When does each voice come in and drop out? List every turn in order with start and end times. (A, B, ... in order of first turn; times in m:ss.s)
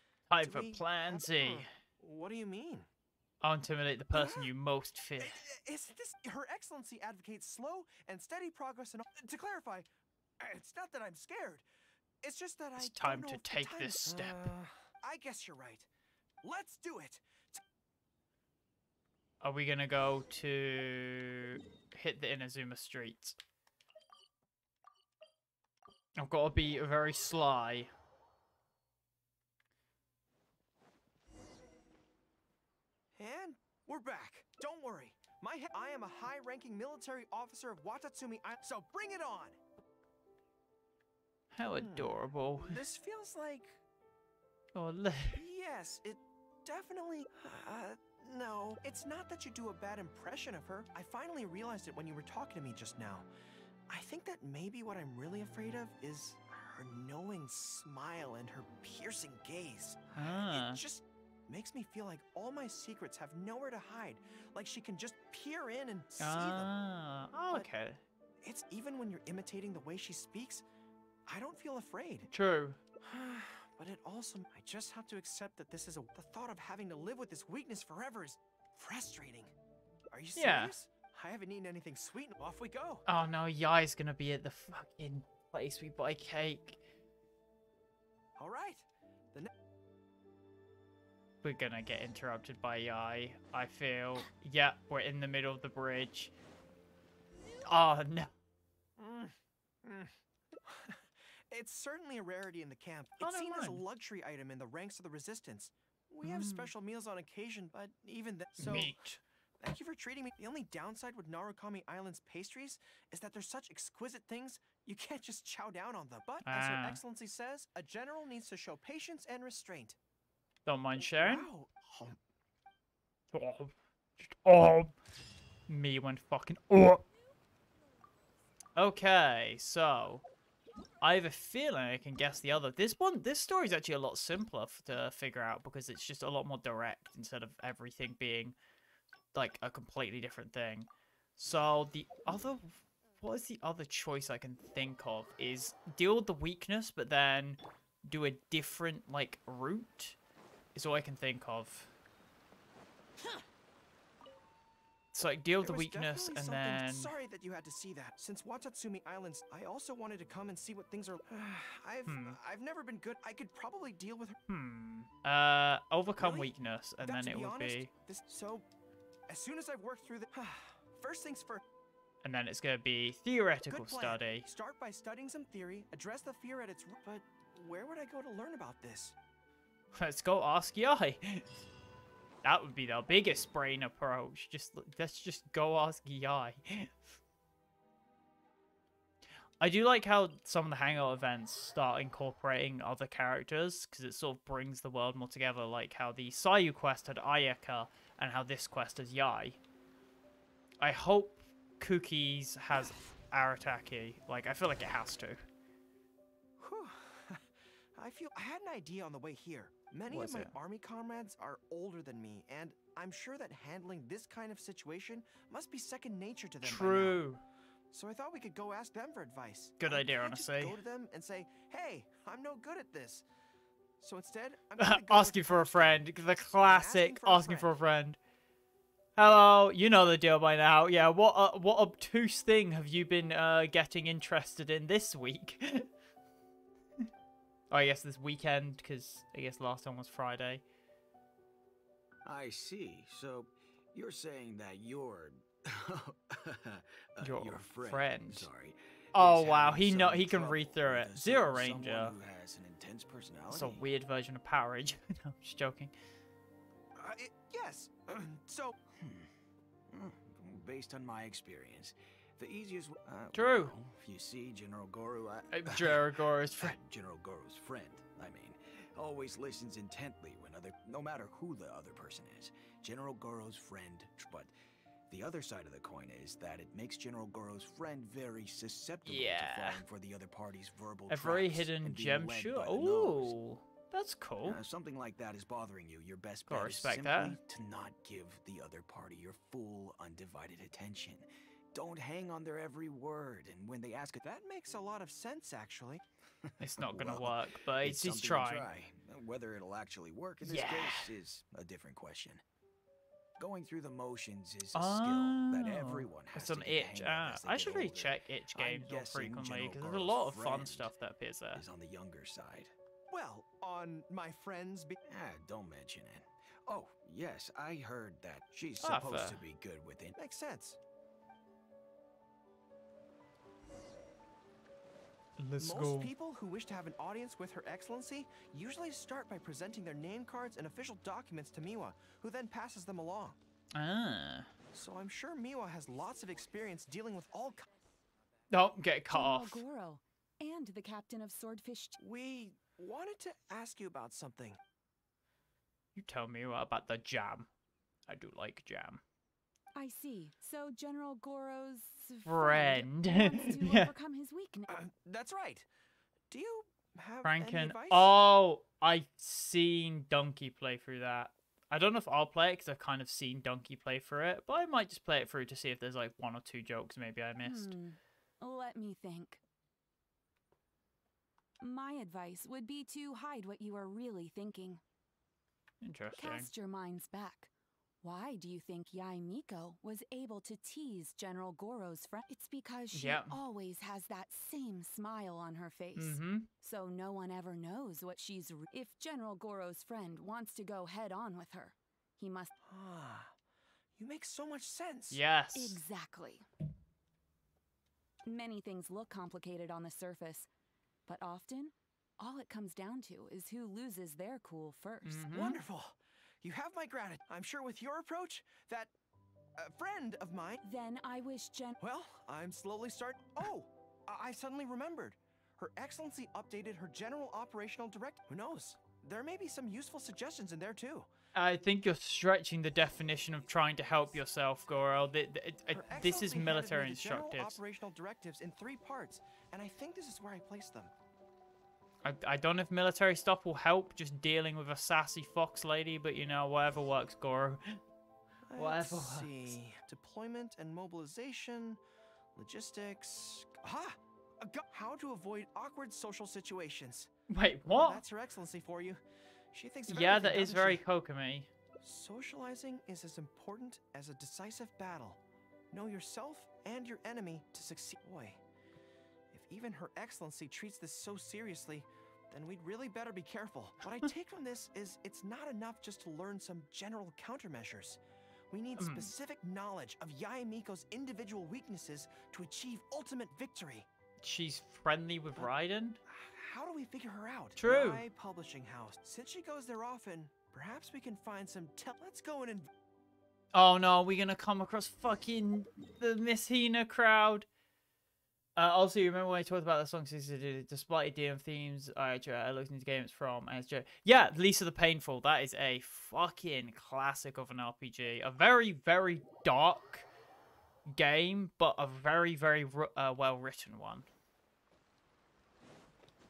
0:00.3-0:01.7 A
0:00.4-0:02.9 B
0:03.4-0:05.4 A
0:04.1-0:04.5 B
0:05.2-0:09.9 B
0:10.4-0:11.7 B
0:12.2-0:15.9 B
0:12.8-0:14.5 A
0:16.4-0:17.6 B
0:19.4-0:23.4 A
0:26.2-0:27.9 A
0:33.1-0:39.6 B
0:41.5-0:42.8 A
0:41.7-0:43.8 B
0:44.7-0:45.4 A
0:45.3-0:53.3 B
0:53.9-1:06.7 B
1:00.1-1:00.8 A
1:06.2-1:08.0 A
1:08.4-1:10.6 B
1:11.3-1:12.3 B
1:12.3-1:12.8 A
1:13.0-1:19.5 B
1:20.1-1:23.0 B
1:20.4-1:20.7 A
1:23.0-1:26.8 A
1:28.4-1:29.5 B
1:31.4-1:36.3 A
1:37.7-1:38.3 A
1:39.0-1:49.0 B
1:43.2-1:43.8 A
1:46.2-1:46.7 A
1:48.6-1:49.2 A
1:49.6-2:00.0 B
1:56.4-1:57.0 A
2:00.7-2:01.5 A
2:01.1-2:02.2 B
2:03.3-2:05.0 A
2:05.7-2:07.0 A
2:08.8-2:10.2 A
2:11.0-2:18.6 A
2:19.3-2:30.2 A
2:30.7-2:31.9 A
2:35.1-2:37.1 A
2:35.6-2:44.4 B
2:42.0-2:42.4 A
2:44.5-2:47.9 A
2:46.2-2:48.7 B
2:49.3-2:51.6 B
2:52.2-2:54.5 A
2:53.7-2:59.2 B
2:59.9-3:01.4 A
3:02.4-3:07.0 A
3:09.6-3:19.6 A
3:20.8-3:25.4 A
3:26.6-3:37.2 B
3:30.1-3:30.5 A
3:36.6-3:37.4 A
3:37.9-3:43.3 B
3:39.8-3:40.8 A
3:44.0-3:47.7 B
3:44.8-3:48.2 A
3:49.2-3:55.9 A
3:57.7-4:00.6 A
4:02.2-4:13.8 C
4:07.2-4:08.5 A
4:09.1-4:12.2 A
4:13.5-4:15.9 A
4:17.0-4:18.8 B
4:19.0-4:19.3 C
4:19.9-4:26.1 C
4:23.3-4:23.7 A
4:25.5-4:26.8 A
4:26.6-4:34.5 C
4:35.1-4:43.4 C
4:39.0-4:39.8 A
4:41.1-4:44.6 A
4:44.4-4:54.2 C
4:46.5-4:47.4 A
4:54.2-4:56.0 B
4:56.6-4:58.7 A
4:56.6-5:02.4 C
5:00.4-5:01.1 A
5:03.4-5:10.9 C
5:04.7-5:11.6 A
5:11.5-5:12.7 C
5:13.1-5:15.0 B
5:15.1-5:20.2 C
5:18.8-5:19.4 A
5:20.2-5:20.8 B
5:25.4-5:26.1 A
5:25.6-5:33.4 B
5:33.7-5:34.5 A
5:34.7-5:37.7 B
5:38.5-5:39.6 A
5:39.1-5:42.0 D
5:42.0-5:44.6 B
5:46.0-5:47.5 A
5:48.1-5:49.0 A
5:49.7-5:54.8 D
5:52.2-5:53.9 A
5:54.7-5:55.7 B
5:56.3-5:58.2 B
5:57.2-6:07.8 A
6:07.4-6:09.4 D
6:11.6-6:14.8 D
6:15.8-6:16.5 A
6:16.2-6:17.5 D
6:18.0-6:32.5 D
6:22.9-6:23.4 A
6:26.0-6:26.5 A
6:32.6-6:33.4 B
6:34.0-6:35.2 B
6:35.1-6:35.8 A
6:35.5-6:36.4 D
6:38.2-6:40.5 D
6:41.0-6:45.4 D
6:45.0-6:45.6 A
6:45.3-6:48.9 B
6:49.6-6:50.6 B
6:50.6-6:51.8 D
6:51.8-7:01.1 B
7:01.4-7:07.6 A
7:05.7-7:10.9 B
7:12.0-7:17.8 A
7:18.5-7:21.8 B
7:18.6-7:19.6 A
7:22.4-7:27.1 B
7:27.3-7:28.0 A
7:27.6-7:29.0 B
7:29.5-7:30.8 B
7:29.9-7:31.5 A
7:31.8-7:38.4 B
7:39.3-7:53.9 B
7:48.8-7:49.1 A
7:54.2-7:56.0 A
7:56.0-8:02.7 B
7:57.6-7:58.0 A
8:03.5-8:07.5 A
8:08.6-8:20.1 A
8:20.9-8:24.1 A